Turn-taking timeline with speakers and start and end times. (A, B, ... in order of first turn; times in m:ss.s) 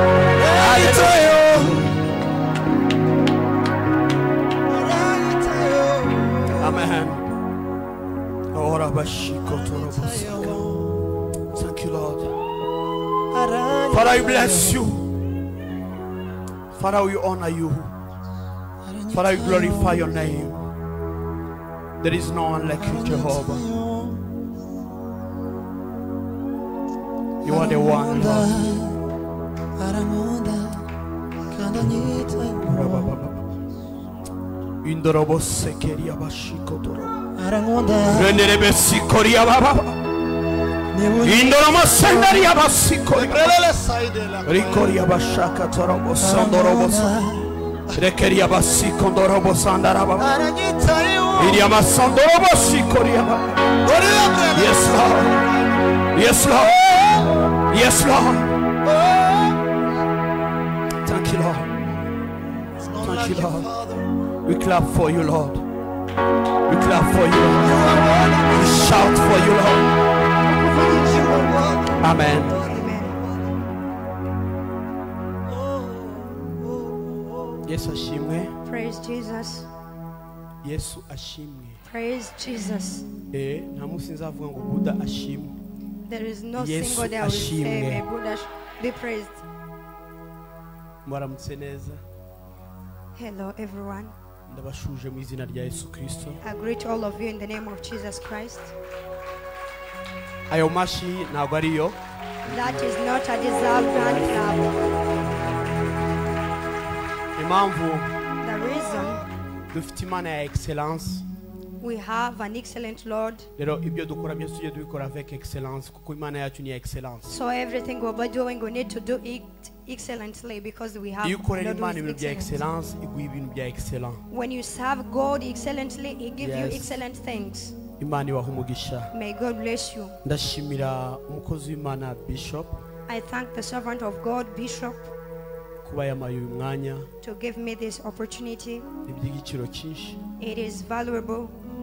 0:00.4-0:01.9 A
0:00.5-0:01.4 B
0:04.7-0:06.7 A
0:06.6-0:07.2 B
0:08.5-0:10.7 B
0:09.6-0:11.0 A
0:11.5-0:12.3 B
0:13.3-0:14.8 A
0:13.9-0:15.1 B
0:16.7-0:17.9 B
0:18.8-0:20.0 A
0:19.1-0:20.6 B
0:22.0-0:23.7 B
0:22.8-0:24.2 A
0:27.4-0:28.5 B
0:27.4-0:29.0 A
0:29.8-0:30.9 A
0:31.5-0:33.1 A
0:32.6-0:33.5 B
0:34.8-0:37.2 B
0:37.3-0:38.4 A
0:38.0-0:40.0 B
0:40.9-0:42.4 A
0:41.2-0:43.6 B
0:43.1-0:45.0 A
0:44.4-0:47.2 B
0:46.2-0:47.9 A
0:47.9-0:50.3 B
0:50.2-0:51.7 A
0:51.4-0:53.6 B
0:53.8-0:55.7 A
0:54.5-0:55.4 B
0:56.1-0:56.8 B
0:56.6-0:57.5 A
0:57.7-0:58.5 B
0:58.8-0:59.6 A
1:01.0-1:01.7 B
1:02.8-1:04.1 A
1:03.0-1:03.7 B
1:04.4-1:05.6 B
1:06.7-1:07.8 B
1:07.6-1:09.0 A
1:08.5-1:09.9 B
1:10.6-1:13.2 A
1:12.0-1:12.6 B
1:12.6-1:13.2 C
1:15.5-1:17.6 A
1:17.6-1:18.5 B
1:18.6-1:19.7 C
1:20.6-1:21.8 B
1:21.9-1:23.0 C
1:23.3-1:25.6 B
1:26.1-1:29.4 C
1:26.6-1:28.0 B
1:31.0-1:32.0 B
1:33.2-1:34.1 C
1:34.5-1:36.4 B
1:36.4-1:38.7 C
1:40.5-1:42.0 B
1:42.5-1:44.7 C
1:43.9-1:44.5 B
1:47.4-1:48.1 B
1:48.4-1:49.2 C
1:49.7-1:51.2 B
1:51.8-1:53.5 C
1:53.6-1:57.3 B
1:57.3-2:02.6 C
2:01.2-2:04.2 B
2:04.3-2:07.7 C
2:06.4-2:06.9 B
2:08.0-2:09.1 B
2:09.1-2:10.2 C
2:10.2-2:12.8 B
2:13.1-2:15.1 C
2:15.8-2:17.1 B
2:17.2-2:18.9 C
2:19.0-2:20.2 B
2:20.4-2:21.5 C